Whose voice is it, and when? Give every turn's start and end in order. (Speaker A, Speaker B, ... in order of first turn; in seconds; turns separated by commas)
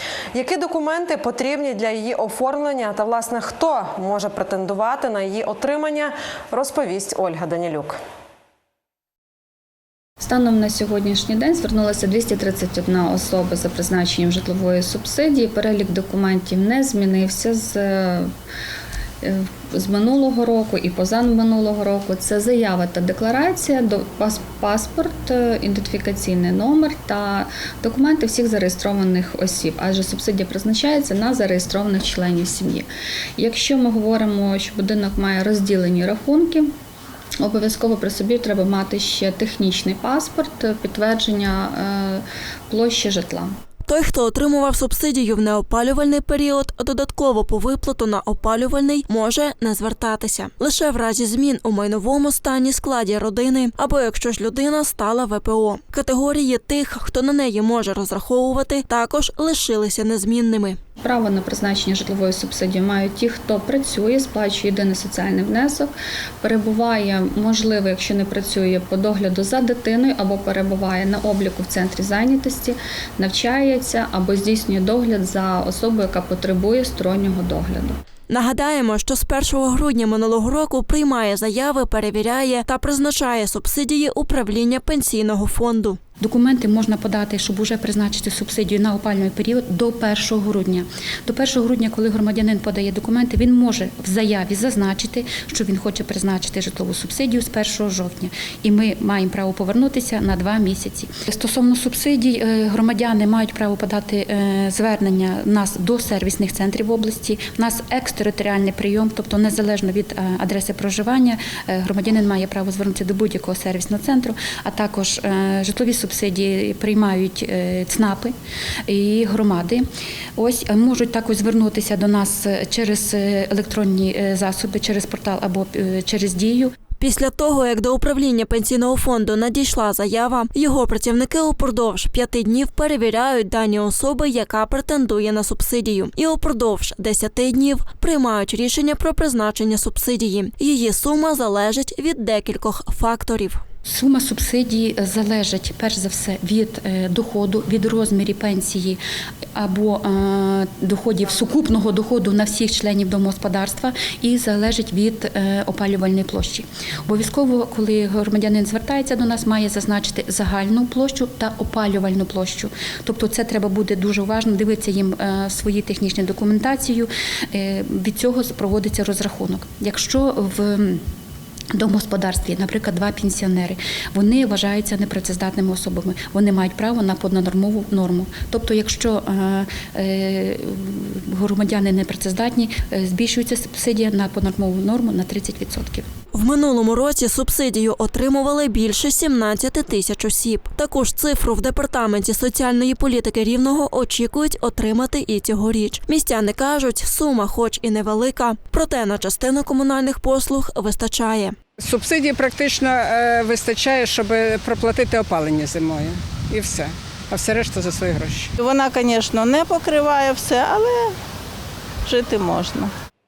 Speaker A: 0.3-8.0, Speaker B: 10.2-18.3, Speaker B: 19.2-32.9, Speaker B: 33.4-36.7, Speaker B: 37.4-43.5, Speaker C: 43.9-60.8, Speaker B: 61.0-65.9, Speaker B: 66.4-78.0, Speaker C: 78.3-86.0, Speaker D: 86.2-118.3, Speaker D: 118.9-119.8, Speaker D: 120.3-126.7, Speaker C: 127.0-143.6, Speaker D: 143.8-149.0, Speaker D: 149.5-171.0, Speaker D: 171.7-186.0, Speaker C: 186.3-201.6, Speaker E: 201.8-208.5, Speaker F: 208.6-211.1, Speaker F: 212.1-212.9